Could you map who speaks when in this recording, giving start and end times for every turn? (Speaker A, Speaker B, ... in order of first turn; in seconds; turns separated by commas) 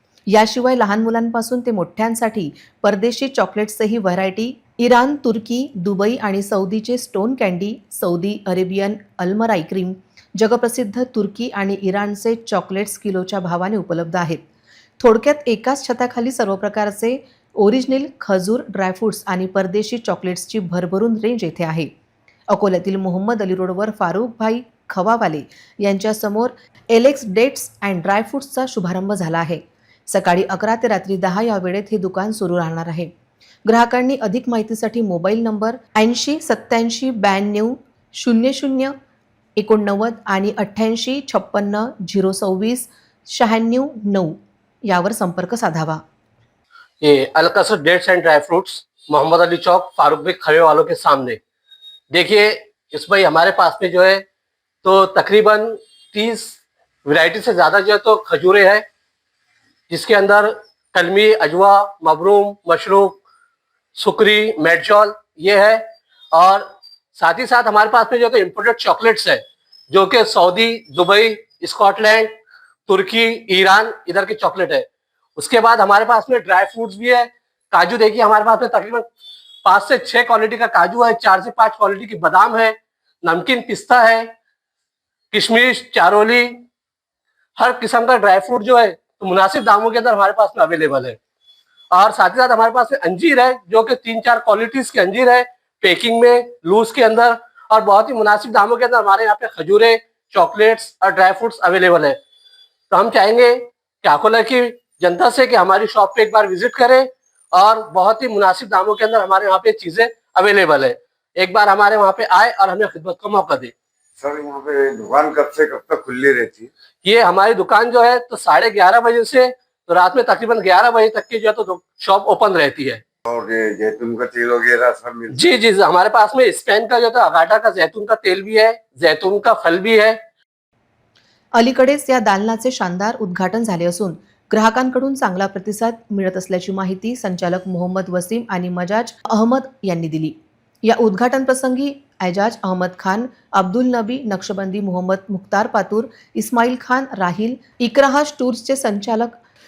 Speaker A: 0.3-14.4, Speaker A: 15.0-21.9, Speaker A: 22.5-33.1, Speaker A: 33.7-38.9, Speaker A: 39.6-46.0, Speaker B: 47.0-51.4, Speaker B: 52.1-54.2, Speaker B: 54.8-58.8, Speaker B: 59.9-63.2, Speaker B: 64.0-66.6, Speaker B: 67.2-72.3, Speaker B: 72.9-79.0, Speaker B: 79.7-84.3, Speaker B: 85.3-86.6, Speaker B: 87.6-91.2, Speaker B: 91.9-102.2, Speaker B: 102.9-113.7, Speaker C: 114.2-116.7, Speaker B: 117.0-123.0, Speaker C: 123.4-125.3, Speaker B: 125.3-130.2, Speaker A: 131.6-149.4